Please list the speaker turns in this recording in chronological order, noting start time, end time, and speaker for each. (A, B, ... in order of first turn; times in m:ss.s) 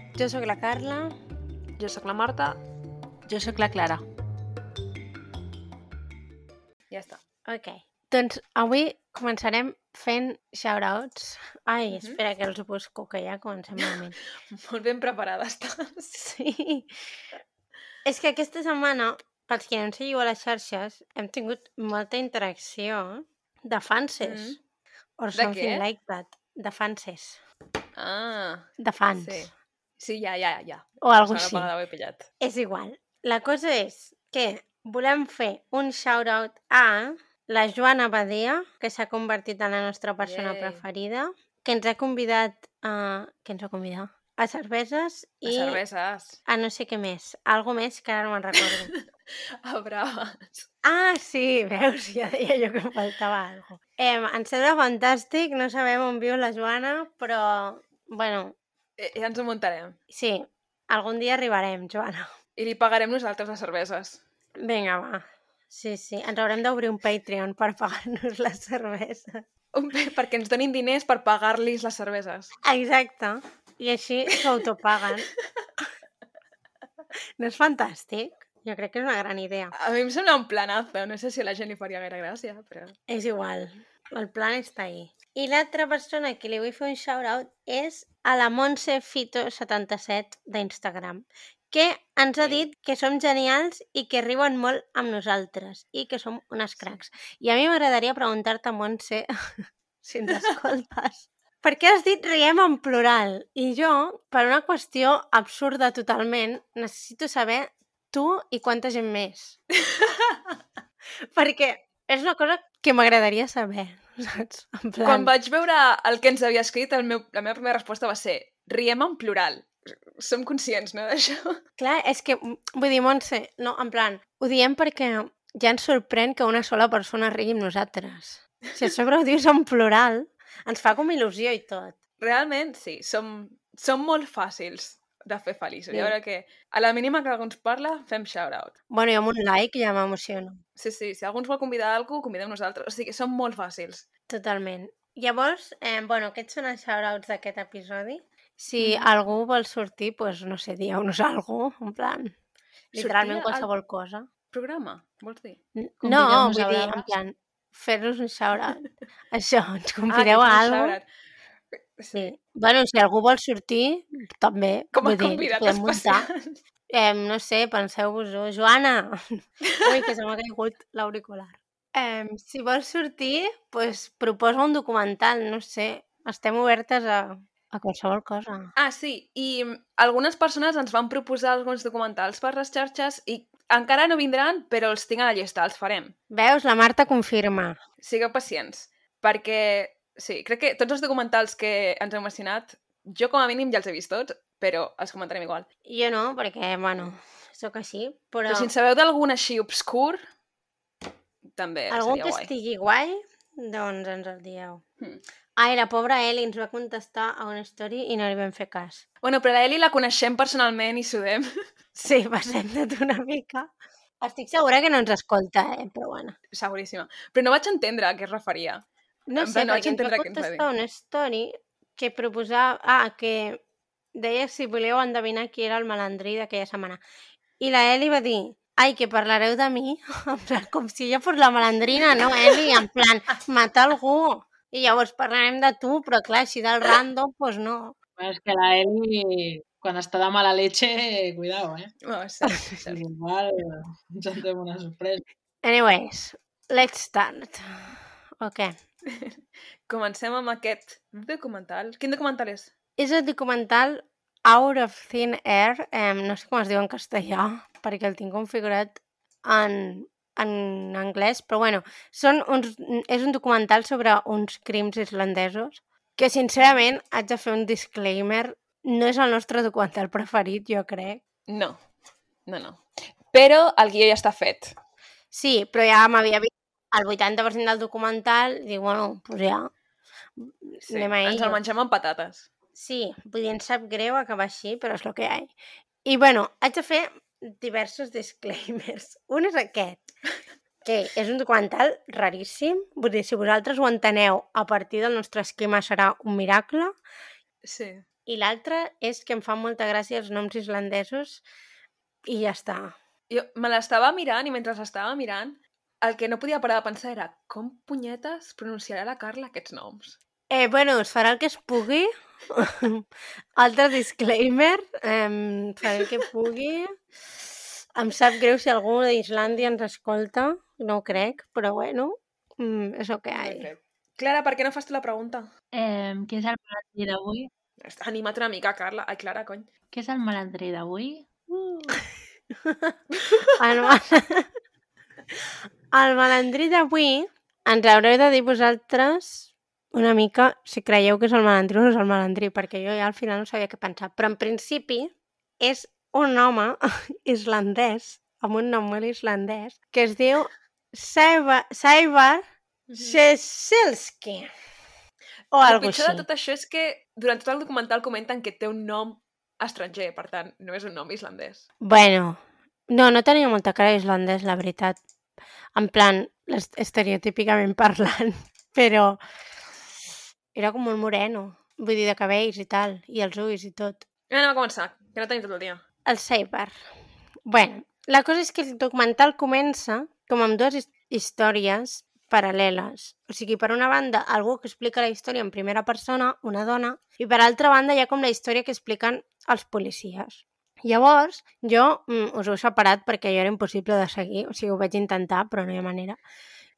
0:00.1-0:01.1 A
0:01.8-0:02.6 B
0:03.3-0:04.0 C
0:06.9-0:07.2 B
0:07.4-0:14.2 A
0:11.9-0:12.2 B
0:14.5-0:16.2 B
0:16.1-0:17.0 A
0:18.0-0:24.6 A
0:24.2-0:24.6 B
0:25.2-0:27.4 A
0:25.3-0:25.8 B
0:28.0-0:32.3 B
0:28.8-0:29.5 A
0:31.0-0:31.7 A
0:32.4-0:45.8 A
0:40.2-0:40.8 B
0:45.4-0:46.4 B
0:46.4-0:48.9 A
0:48.6-0:49.0 B
0:49.6-0:50.7 B
0:50.8-0:58.6 A
0:59.0-1:00.0 B
1:00.1-1:02.3 A
1:02.6-1:04.2 B
1:04.6-1:09.4 A
1:09.7-1:12.5 B
1:12.6-1:15.3 A
1:17.4-1:19.7 A
1:19.7-1:22.9 B
1:23.1-1:49.6 A
1:49.9-1:50.4 B
1:51.3-1:55.3 A
1:55.0-2:01.6 B
2:01.8-2:12.0 A
2:12.2-2:18.8 B
2:18.9-2:20.6 A
2:20.8-2:24.0 B
2:24.3-2:32.4 A
2:28.8-2:29.1 B
2:32.9-2:34.3 A
2:32.9-2:33.7 B
2:34.5-2:35.6 B
2:35.8-2:41.0 A
2:36.0-2:37.1 C
2:40.1-2:41.0 B
2:41.7-2:42.3 B
2:42.1-2:46.3 A
2:44.9-2:46.6 B
2:46.9-2:58.7 A
2:58.8-3:06.1 B
3:06.3-3:07.8 A
3:08.0-3:15.7 B
3:15.9-3:18.7 A
3:18.5-3:20.2 B
3:21.5-3:22.5 B
3:21.9-3:24.8 A
3:25.6-3:29.0 A
3:29.2-3:31.5 B
3:32.0-3:36.4 A
3:36.5-3:38.8 B
3:39.3-3:43.6 A
3:39.4-3:40.6 B
3:44.1-3:47.0 A
3:47.6-3:58.0 A
3:58.2-4:01.9 C
4:02.0-4:03.0 B
4:02.8-4:05.2 C
4:05.6-4:08.8 A
4:09.1-4:09.4 B
4:09.9-4:12.7 B
4:13.0-4:31.2 A
4:31.5-4:31.8 B
4:32.4-4:34.7 B
4:35.3-4:39.7 A
4:40.4-4:41.6 A
4:40.9-4:42.5 B
4:42.7-4:45.5 A
4:46.0-4:50.1 A
4:50.8-4:57.0 A
4:57.6-4:58.0 B
4:58.3-5:01.4 A
5:02.2-5:03.0 A
5:03.3-5:10.2 B
5:10.5-5:13.0 A
5:13.6-5:16.9 A
5:17.9-5:23.7 A
5:23.3-5:25.5 B
5:25.7-5:27.5 C
5:27.8-5:29.7 B
5:29.9-5:31.8 C
5:32.6-5:32.9 A
5:33.1-5:33.5 B
5:33.6-5:34.5 A
5:35.9-5:52.4 A
5:52.9-5:53.2 B
5:53.0-5:54.5 A
5:55.5-5:56.2 A
5:55.6-6:01.6 B
6:01.8-6:05.0 A
6:05.7-6:09.2 A
6:10.5-6:14.0 A
6:14.3-6:15.8 B
6:16.0-6:16.8 A
6:17.4-6:36.2 A